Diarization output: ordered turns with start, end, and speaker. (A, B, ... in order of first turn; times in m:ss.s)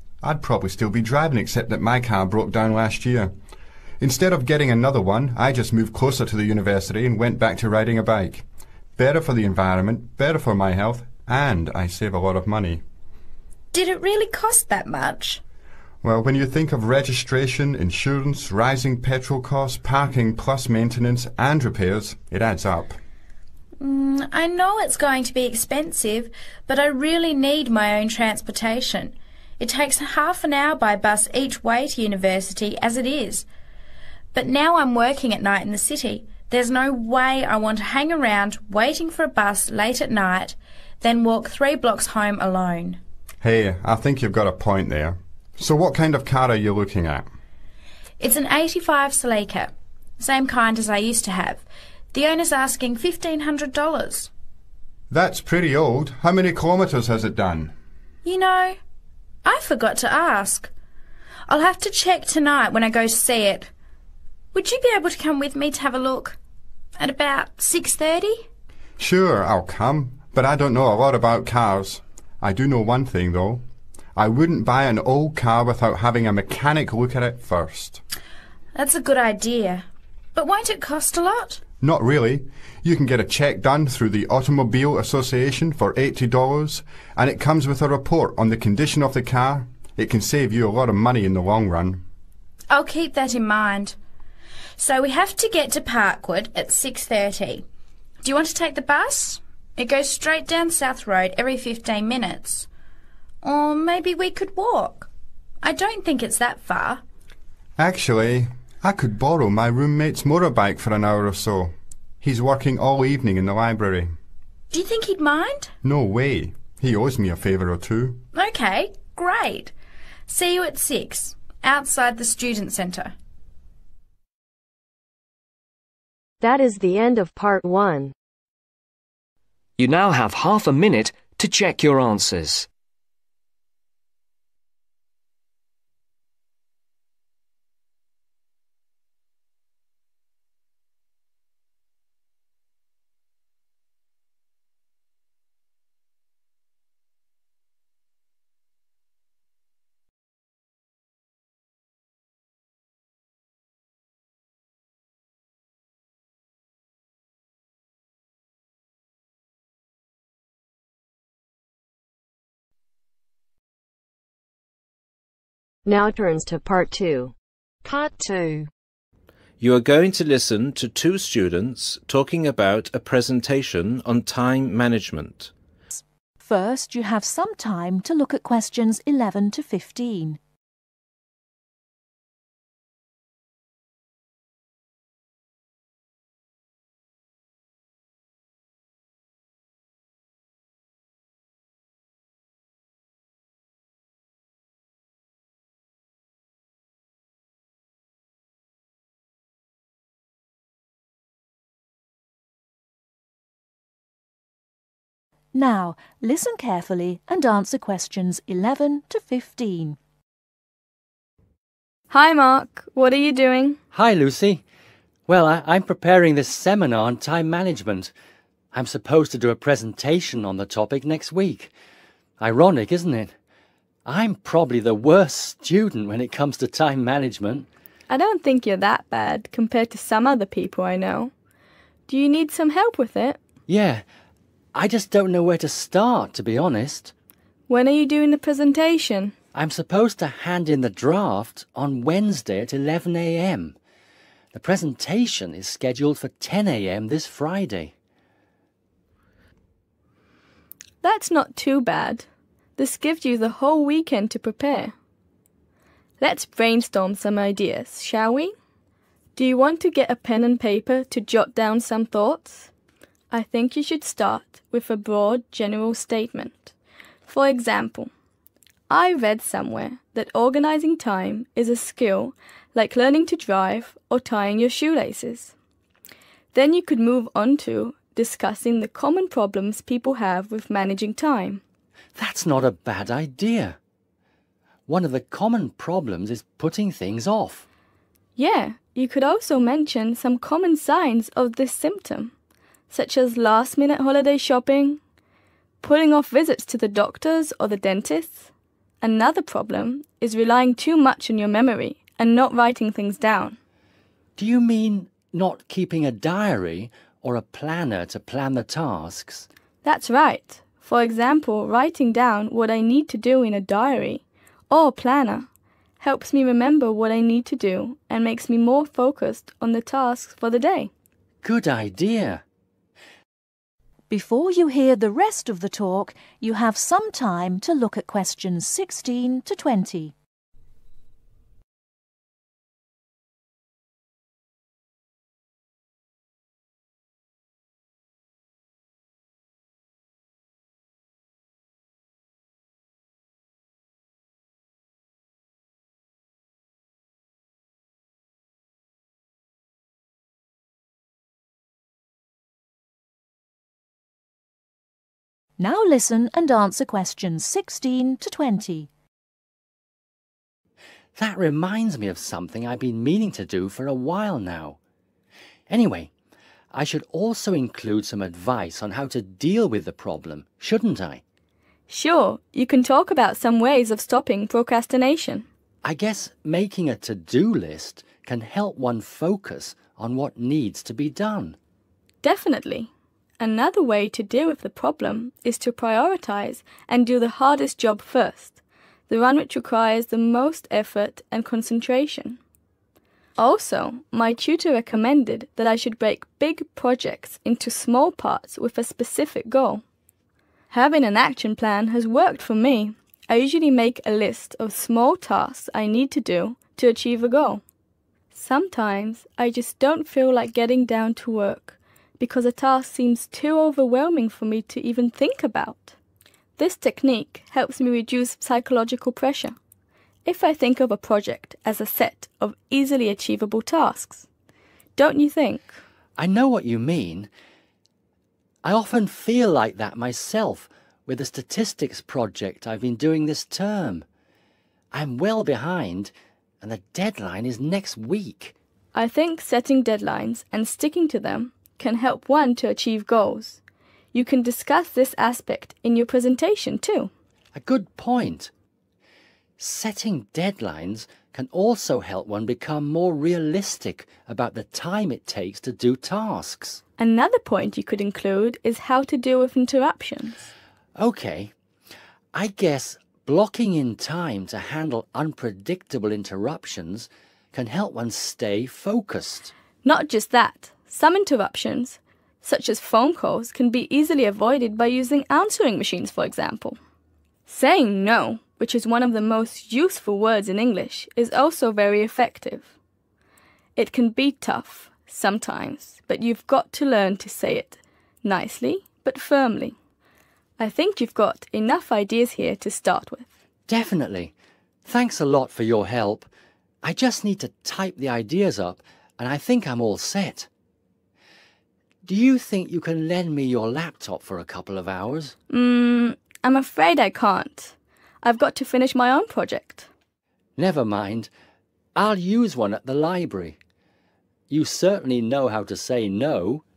0:00.2-0:03.3 A
0:04.0-0:08.4 A
0:09.0-0:12.8 A
0:13.7-0:15.4 B
0:16.0-0:23.0 A
0:23.8-0:33.5 B
0:34.3-0:43.0 B
0:43.4-0:47.3 A
0:48.2-0:54.3 B
0:55.1-0:57.7 A
0:58.2-0:58.8 B
0:59.4-1:00.7 B
1:01.5-1:03.7 B
1:04.5-1:06.4 B
1:07.0-1:08.4 B
1:09.0-1:13.6 A
1:14.2-1:18.0 A
1:18.7-1:21.6 B
1:21.8-1:32.0 A
1:32.7-1:34.0 B
1:34.8-1:37.6 B
1:38.2-1:42.7 B
1:43.4-1:45.1 B
1:45.6-1:47.0 B
1:47.8-1:54.1 A
1:54.7-1:55.7 B
1:55.8-1:58.2 A
1:58.3-1:59.7 B
2:00.3-2:03.1 B
2:06.4-2:08.1 C
2:09.8-2:12.7 D
2:45.8-2:47.3 C
2:47.8-2:48.7 C
2:49.6-2:55.5 E
2:55.9-3:00.4 F
3:25.5-3:30.0 F
3:32.1-3:33.8 G
3:33.9-3:34.6 H
3:35.3-3:38.1 H
3:38.7-3:41.7 H
3:42.4-3:43.3 H
3:44.0-3:47.7 H
3:48.1-3:51.3 G
3:52.1-3:53.4 G
3:53.7-3:54.0 H
3:54.7-3:57.1 H
3:57.7-3:59.3 G
3:59.5-4:03.8 H
4:04.5-4:07.9 H
4:11.0-4:12.2 G
4:12.8-4:14.9 G
4:16.2-4:18.5 G
4:19.4-4:22.7 G
4:23.3-4:26.7 G
4:27.2-4:28.1 G
4:28.9-4:35.5 G
4:36.5-4:41.6 G
4:42.2-4:43.8 H
4:44.9-4:47.6 H
4:48.4-4:52.3 G
4:52.9-4:55.0 G
4:55.8-4:58.5 G
4:59.0-5:03.6 G
5:04.4-5:09.5 H
5:09.8-5:15.5 G
5:16.0-5:20.9 G
5:21.4-5:22.4 H
5:24.1-5:30.1 F
5:55.6-5:58.9 F
6:01.2-6:04.8 H
6:05.7-6:06.1 H
6:06.7-6:11.2 H
6:11.9-6:15.4 G
6:15.8-6:21.6 H
6:22.2-6:28.6 G
6:29.1-6:32.4 G
6:33.4-6:39.8 G
6:40.7-6:47.6 G
6:48.3-6:55.9 G
6:56.6-6:59.6 G
7:00.2-7:04.2 G
7:05.0-7:05.8 G
7:06.2-7:07.3 H
7:08.6-7:14.0 H
7:14.9-7:18.5 H
7:18.9-7:23.6 G
7:24.1-7:27.1 G
7:27.5-7:28.5 H
7:29.6-7:36.8 H
7:37.0-7:40.4 G
7:41.0-7:41.5 H
7:42.3-7:49.5 H
7:49.8-7:56.8 G
7:57.5-8:02.7 G
8:03.8-8:09.8 G
8:10.6-8:13.3 G
8:13.7-8:14.3 H
8:14.8-8:16.3 H
8:16.8-8:20.5 H
8:22.0-8:25.4 H
8:25.5-8:29.8 G
8:30.6-8:31.3 H
8:31.9-8:33.6 H
8:34.5-8:36.6 H